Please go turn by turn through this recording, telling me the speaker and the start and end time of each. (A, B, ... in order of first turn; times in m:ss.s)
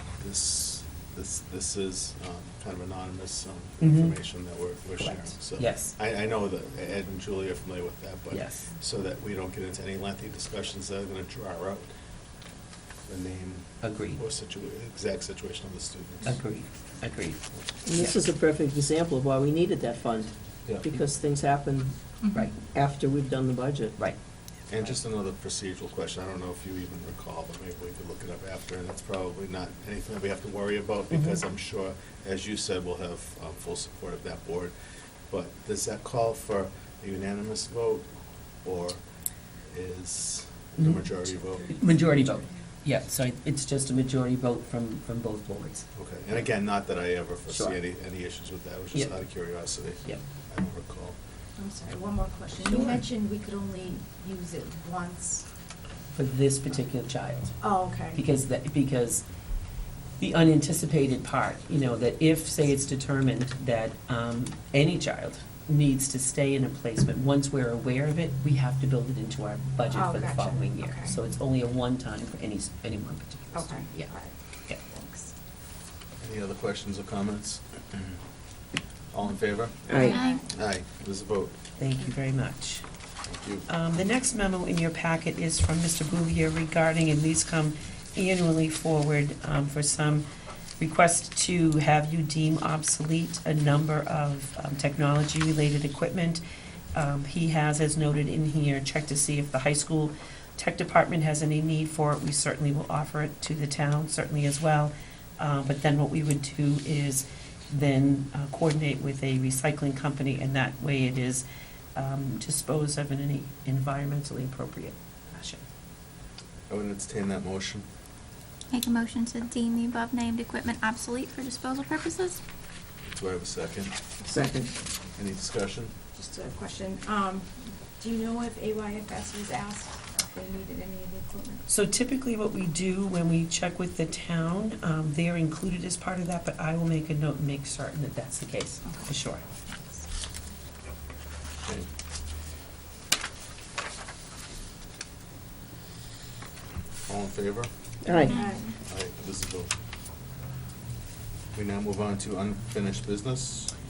0:00.2-0:11.9 A
0:03.8-0:04.2 B
0:05.0-0:06.0 B
0:08.3-0:08.7 B
0:13.1-0:16.4 A
0:13.8-0:14.2 B
0:16.2-0:18.1 B
0:17.8-0:24.0 C
0:24.7-0:34.7 A
0:35.3-0:38.1 A
0:38.6-0:39.0 A
0:39.7-0:41.8 A
0:40.8-0:41.1 B
0:41.7-0:45.9 B
0:46.0-0:51.2 A
0:47.5-0:47.8 B
0:51.6-0:55.5 D
0:52.6-0:53.0 B
0:56.2-0:57.6 B
0:57.6-0:58.2 D
0:58.1-0:59.2 B
1:00.2-1:14.1 B
1:09.9-1:11.2 D
1:13.5-1:15.3 D
1:16.2-1:18.2 A
1:19.1-1:21.6 A
1:19.9-1:20.2 C
1:20.0-1:20.4 D
1:20.0-1:20.4 E
1:21.8-1:22.8 B
1:23.3-1:23.7 A
1:23.7-1:30.3 B
1:30.8-1:36.4 B
1:37.0-1:55.7 B
1:56.7-1:57.9 A
1:58.7-2:02.4 E
2:03.0-2:04.0 A
2:04.3-2:04.7 C
2:05.2-2:05.9 A
2:06.2-2:11.6 D
2:11.7-2:19.4 B
2:18.9-2:19.1 D
2:27.1-2:27.7 A
2:28.0-2:28.4 C
2:28.3-2:28.6 E
2:28.4-2:28.7 D
2:28.8-2:29.7 A
2:31.5-2:33.7 A